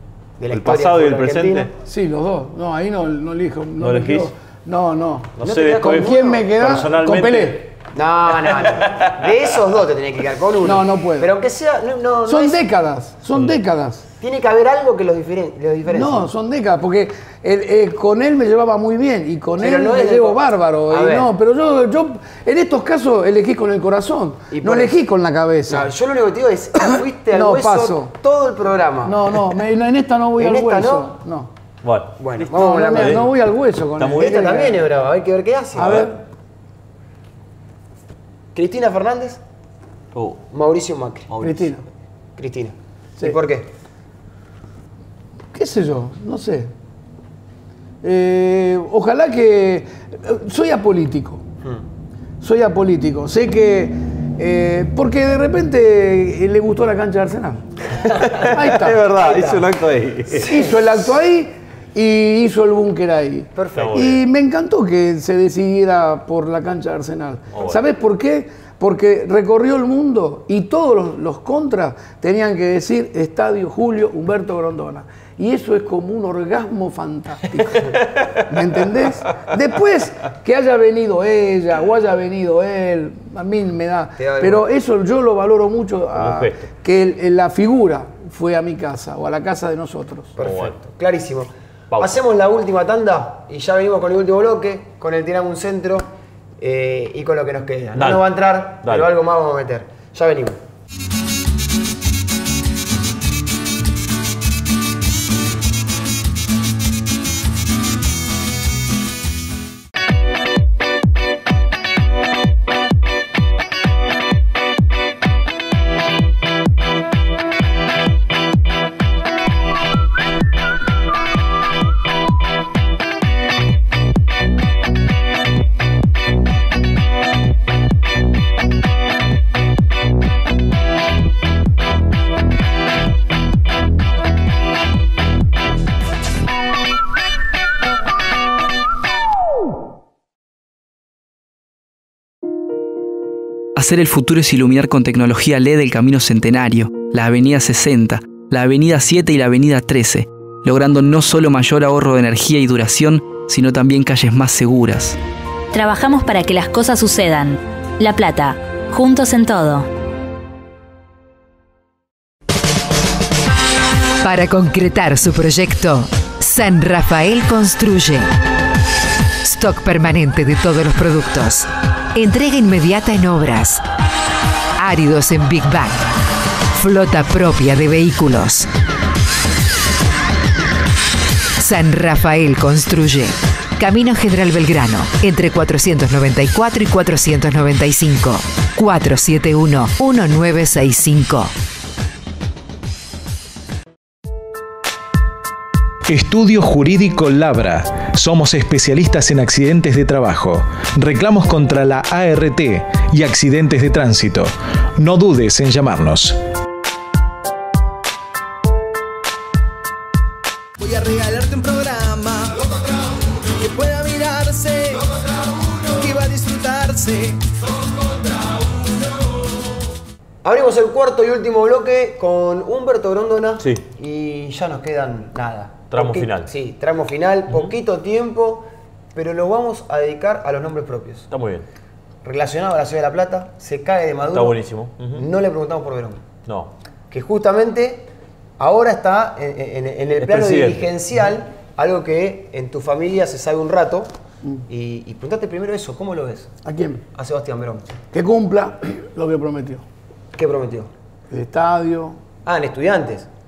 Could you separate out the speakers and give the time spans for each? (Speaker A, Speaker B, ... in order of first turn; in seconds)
Speaker A: 0.4-1.7, 5.4-6.5, 7.9-12.6, 14.2-16.3, 19.6-21.3, 24.5-25.0, 25.7-29.4, 30.4-31.1, 32.2-33.2, 34.2-36.0, 38.5-39.4, 40.5-41.3, 42.4-43.7, 58.1-58.5, 59.1-59.7, 60.4-60.7, 63.5-64.1, 84.2-84.7, 90.4-96.1, 96.6-100.6, 220.4-231.3, 232.2-234.6, 235.1-236.2, 237.1-238.1, 238.6-244.1, 244.7-246.5, 247.1-247.8, 250.3-250.9, 252.4-253.3
Speaker B: 0.5-1.7, 3.8-4.3, 5.4-7.7, 8.5-9.2, 31.8-32.1, 32.9-33.3, 34.0-34.6, 40.1-40.4, 41.3-41.7, 58.1-60.5, 63.8-64.2, 67.5-67.8, 86.2-86.6, 90.4-90.8, 91.9-92.2, 98.0-98.3, 98.8-99.1, 225.9-226.5, 231.3-231.7, 234.3-235.3, 236.5-236.7, 240.2-240.9
Speaker C: 1.8-7.7, 10.6-11.3, 12.3-14.1, 15.9-25.9, 27.3-28.2, 29.0-31.5, 32.4-34.8, 35.8-36.2, 41.4-41.8, 45.5-46.7, 48.0-51.4, 52.4-57.6, 58.4-59.0, 60.4-90.3, 246.7-247.0, 248.1-249.8, 251.3-252.2
Speaker D: 143.8-155.2
Speaker E: 155.7-159.9
Speaker F: 164.2-168.3, 169.4-173.8, 174.8-176.0, 176.7-178.7, 181.6-191.5
Speaker G: 196.1-206.4
Speaker H: 210.8-212.6, 213.6-215.1, 215.9-217.4